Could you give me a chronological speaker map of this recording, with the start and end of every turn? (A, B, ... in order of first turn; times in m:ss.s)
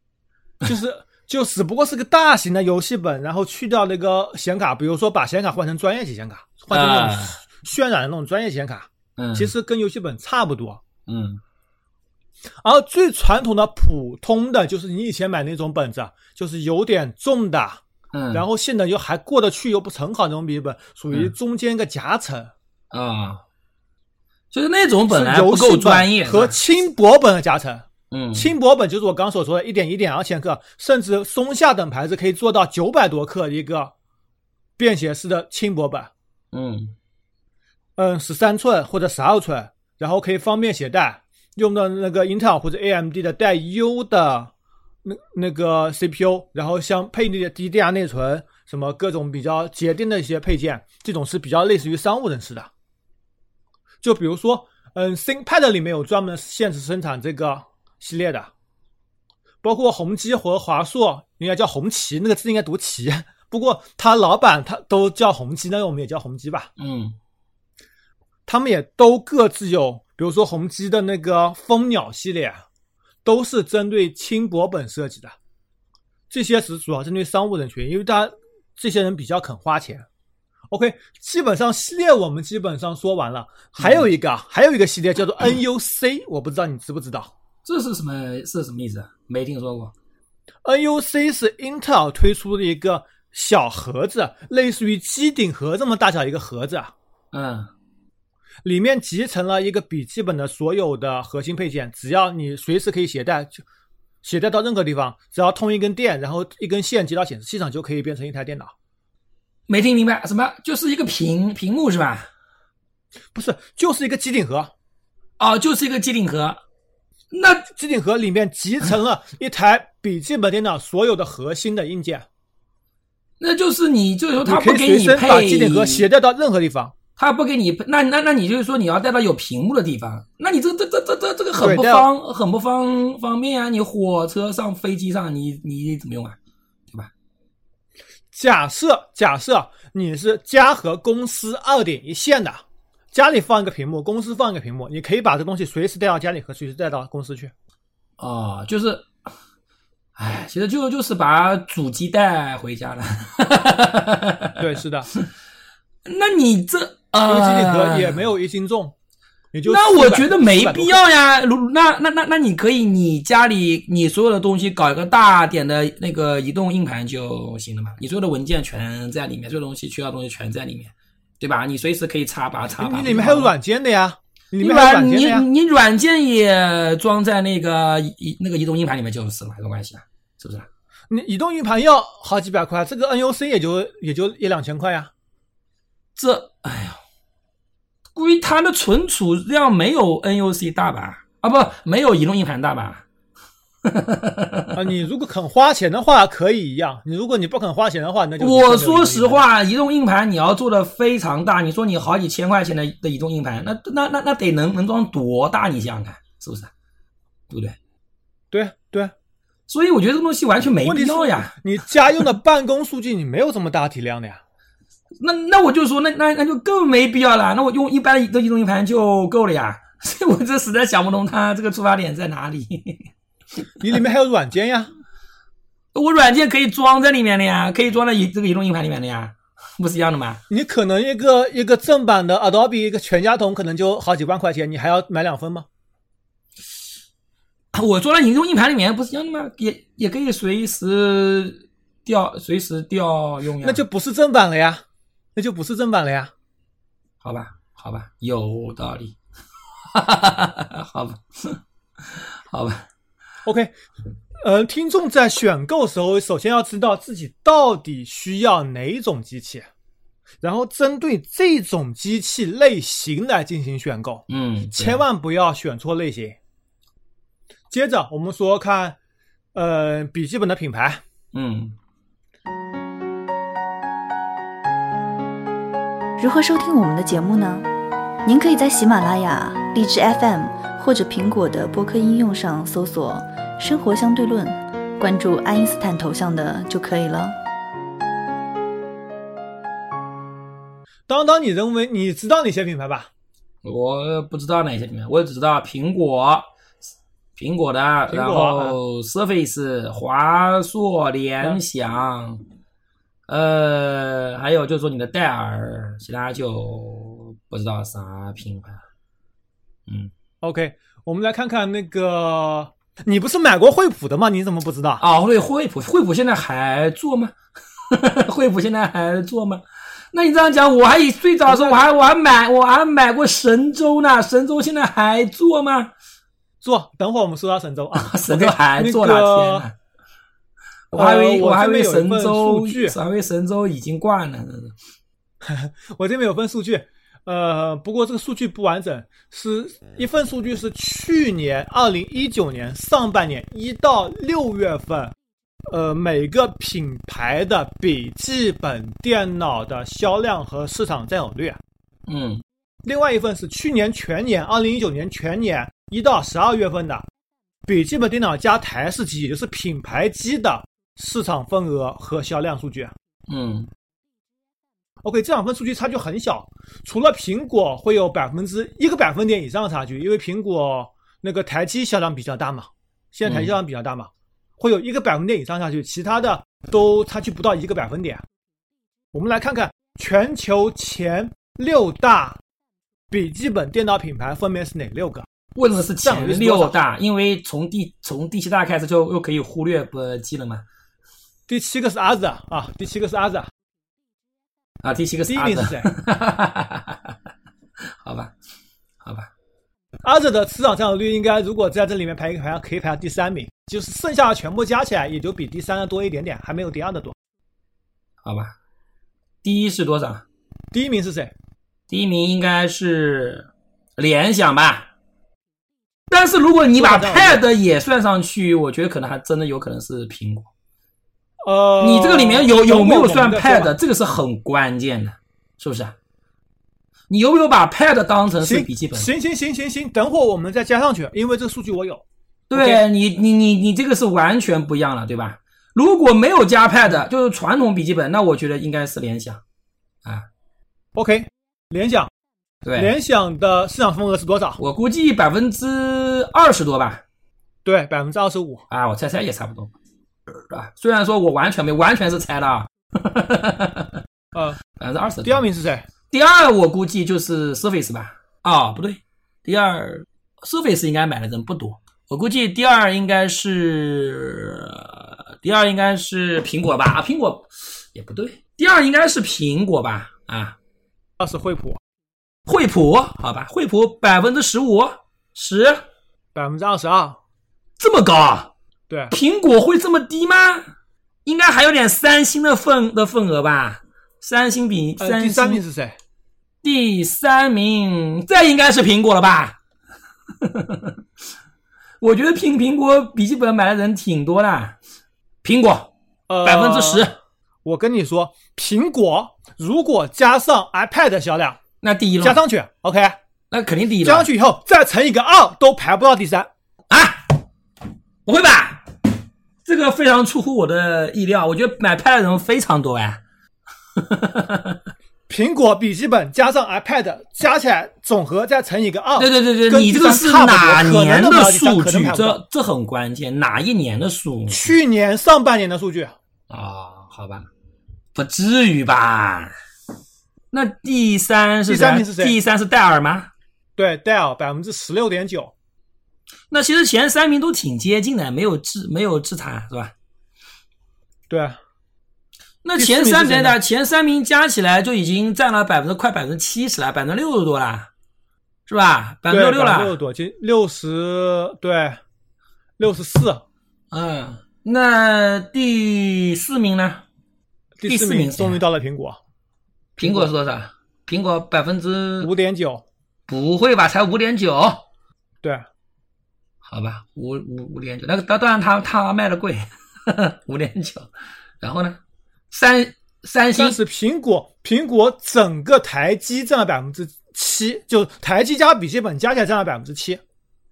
0:00.6-0:10.8 A
0:06.7-0:07.4 B
0:09.2-0:09.5 B
0:11.1-0:11.4 B
0:12.6-0:17.8 A
0:18.1-0:18.4 B
0:18.3-0:22.5 A
0:22.9-0:23.4 B
0:24.5-0:26.6 B
0:25.1-0:33.9 A
0:28.1-0:28.5 B
0:34.8-0:36.1 A
0:36.5-0:37.0 B
0:38.0-0:44.5 A
0:45.0-0:52.7 A
0:54.0-0:58.5 A
0:59.6-1:06.7 A
1:06.8-1:07.2 B
1:08.5-1:12.6 A
1:13.2-1:15.4 A
1:16.3-1:20.1 A
1:20.7-1:27.3 A
1:27.6-1:29.9 B
1:30.6-1:36.9 A
1:37.3-1:37.7 B
1:38.6-1:43.6 A
1:44.2-1:48.7 A
1:49.7-1:52.3 B
1:53.3-1:54.7 A
1:55.4-1:56.6 B
1:57.3-1:57.6 B
1:57.6-2:02.3 A
2:03.4-2:06.1 B
2:04.4-2:06.9 A
2:07.2-2:16.4 B
2:11.6-2:12.1 A
2:18.3-2:27.5 A
2:28.2-2:29.1 B
2:30.2-2:34.6 B
2:34.6-2:35.1 A
2:36.1-2:38.2 B
2:37.3-2:39.0 A
2:39.5-2:41.0 A
2:39.7-2:53.5 B
2:52.8-2:55.5 A
2:54.6-3:00.7 B
3:01.1-3:05.1 A
3:06.2-3:07.0 B
3:08.2-3:13.0 B
3:13.8-3:14.8 B
3:14.7-3:19.4 A
3:18.4-3:26.7 B
3:27.5-3:27.8 B
3:28.5-3:29.1 A
3:29.7-3:31.6 B
3:30.8-3:34.4 A
3:35.2-3:43.1 B
3:43.8-3:44.9 A
3:45.9-3:50.4 B
3:50.5-3:55.7 A
3:57.7-4:03.8 B
4:03.6-4:04.8 A
4:05.4-4:06.3 A
4:07.2-4:09.2 B
4:09.9-4:11.6 B
4:12.2-4:12.9 B
4:13.4-4:13.7 A
4:14.4-4:19.7 A
4:20.4-4:26.4 A
4:24.3-4:25.0 B
4:27.7-4:29.0 A
4:29.5-4:31.0 A
4:31.3-4:31.8 B
4:36.2-4:37.7 C
4:38.2-4:47.4 C
4:51.1-4:53.1 A
4:53.6-4:56.5 B
4:57.4-5:02.4 B
4:58.1-4:58.8 A
5:03.3-5:08.8 B
5:10.4-5:15.0 A
5:15.0-5:17.4 B
5:17.9-5:25.9 B
5:21.5-5:21.8 A
5:26.6-5:29.7 A
5:28.0-5:29.7 B
5:30.9-5:34.8 B
5:30.9-5:33.0 A
5:35.4-5:45.2 A
5:45.7-5:51.6 A
5:52.1-5:52.4 B
5:52.8-5:57.1 A
5:57.7-6:02.9 A
6:03.3-6:03.7 B
6:05.0-6:18.2 A
6:13.3-6:13.6 B
6:19.1-6:22.4 A
6:23.1-6:25.3 A
6:25.6-6:30.6 B
6:26.0-6:26.8 A
6:31.5-6:33.5 A
6:34.8-6:37.2 B
6:35.3-6:35.9 A
6:38.0-6:38.3 B
6:39.0-6:39.3 B
6:40.0-6:47.2 A
6:48.2-6:48.6 B
6:49.4-6:50.2 B
6:50.7-6:51.3 A
6:51.9-6:54.9 B
6:56.1-7:00.5 B
6:56.8-6:57.4 A
7:01.4-7:03.7 A
7:01.8-7:06.0 B
7:07.1-7:09.1 B
7:08.4-7:12.8 A
7:12.5-7:19.4 B
7:21.0-7:22.1 A
7:22.6-7:22.9 B
7:22.8-7:24.6 A
7:24.6-7:27.0 B
7:27.6-7:28.6 A
7:28.7-7:29.7 B
7:30.4-7:34.0 B
7:34.3-7:34.6 A
7:34.8-7:35.4 B
7:35.2-7:35.9 A
7:36.1-7:50.6 B
7:51.2-7:51.8 A
7:52.5-7:55.9 B
7:56.4-7:57.2 A
7:57.8-7:58.5 B
7:58.9-7:59.1 A
7:59.1-8:00.6 B
8:01.2-8:05.6 B
8:05.0-8:06.0 A
8:06.6-8:09.6 B
8:10.4-8:11.0 B
8:12.0-8:14.8 B
8:15.4-8:15.9 B
8:16.3-8:17.1 A
8:16.4-8:17.2 B
8:17.6-8:21.6 A
8:21.8-8:22.4 B
8:22.2-8:23.2 A
8:23.5-8:24.3 B
8:24.0-8:26.5 A
8:26.9-8:27.4 B
8:28.3-8:28.8 B
8:29.6-8:33.2 B
8:34.0-8:34.8 B
8:35.3-8:42.4 A
8:39.2-8:44.7 B
8:44.5-8:46.2 A
8:46.5-8:47.5 B
8:48.2-8:49.5 B
8:50.5-8:53.3 B
8:51.7-8:52.4 A
8:53.8-8:55.5 A
8:56.5-8:59.9 B
9:01.3-9:01.6 A
9:02.6-9:07.9 B
9:02.8-9:03.6 A
9:08.7-9:10.0 B
9:09.3-9:12.0 A
9:12.8-9:13.4 A
9:13.9-9:17.0 B
9:17.8-9:19.2 A
9:17.8-9:18.6 B
9:20.0-9:20.3 A
9:20.0-9:22.3 B
9:22.2-9:22.8 A
9:23.3-9:24.8 B
9:26.6-9:31.1 B
9:31.6-9:32.0 B
9:32.5-9:33.8 B
9:33.6-9:40.2 A